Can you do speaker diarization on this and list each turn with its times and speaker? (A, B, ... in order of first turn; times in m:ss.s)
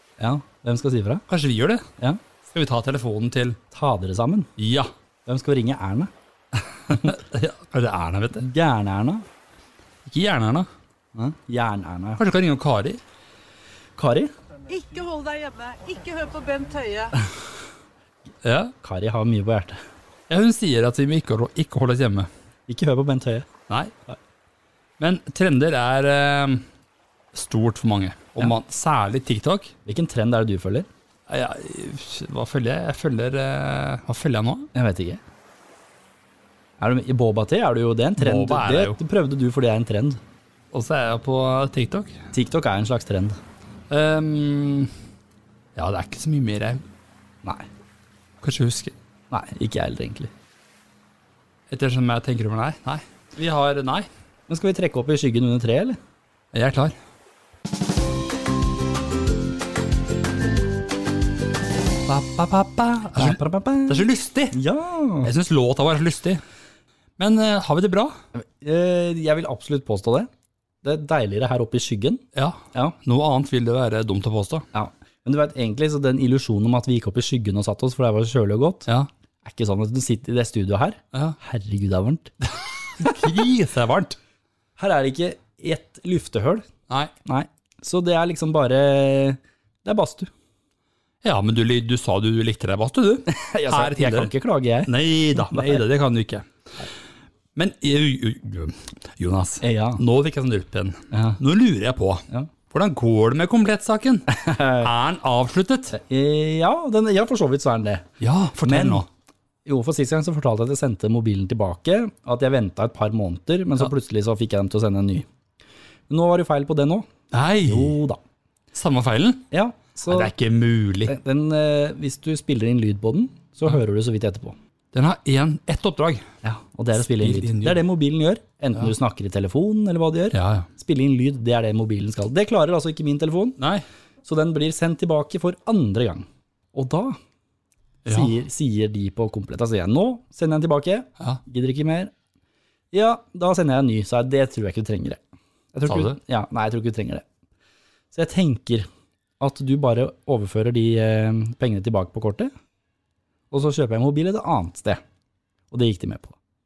0:00.2-0:01.2 A
0:01.3-0:01.8 B
0:02.4-0:03.6 B
0:03.7-0:04.5 A
0:04.6-0:04.9 B
0:05.2-0:06.1 A
0:06.5-0:08.5 B
0:08.4-0:09.2 A
0:10.0-0:10.7 B
0:11.1-0:12.2 A
0:12.2-0:13.0 B
0:14.0-0:14.3 A
0:14.7-0:17.1 C
0:18.4-0:18.7 B
0:18.8-0:19.8 A
0:20.3-0:22.3 B
0:22.7-0:23.5 A
0:25.0-0:26.6 B
0:27.3-0:29.7 B
0:29.8-0:30.9 A
0:31.3-0:34.7 B
0:34.7-0:35.2 A
0:36.8-0:40.2 A
0:38.2-0:39.0 B
0:40.7-0:42.2 B
0:42.3-0:43.4 A
0:43.9-0:44.9 B
0:45.7-0:46.8 B
0:48.4-0:48.9 B
0:49.3-0:50.3 A
0:51.7-0:54.1 B
0:54.5-0:56.0 A
0:56.5-0:56.9 B
1:02.0-1:04.6 B
1:03.2-1:05.3 A
1:05.2-1:06.4 B
1:07.2-1:08.2 B
1:08.3-1:10.3 A
1:10.8-1:13.0 A
1:12.3-1:14.6 B
1:14.7-1:18.9 A
1:19.4-1:22.3 A
1:22.5-1:24.2 B
1:24.8-1:26.7 A
1:27.2-1:30.3 A
1:31.2-1:34.3 B
1:33.3-1:35.8 A
1:34.8-1:36.9 B
1:37.5-1:46.0 B
1:39.6-1:40.0 A
1:41.1-1:41.4 A
1:44.3-1:44.9 A
1:45.9-1:48.1 A
1:48.2-1:49.0 B
1:48.6-1:49.0 A
1:49.6-1:55.2 A
1:56.1-1:57.1 A
1:57.3-1:58.0 B
1:57.6-1:58.2 A
1:58.7-1:59.5 B
1:59.5-2:00.3 A
2:00.1-2:01.2 B
2:01.0-2:04.6 A
2:04.9-2:06.2 B
2:06.4-2:13.6 A
2:07.0-2:07.8 B
2:10.3-2:10.7 B
2:13.6-2:13.8 B
2:14.2-2:17.2 A
2:18.0-2:18.3 B
2:18.0-2:22.1 A
2:22.9-2:25.2 A
2:25.7-2:27.2 A
2:25.8-2:26.2 B
2:28.1-2:28.9 A
2:29.4-2:32.5 A
2:33.5-2:35.0 A
2:35.7-2:36.4 A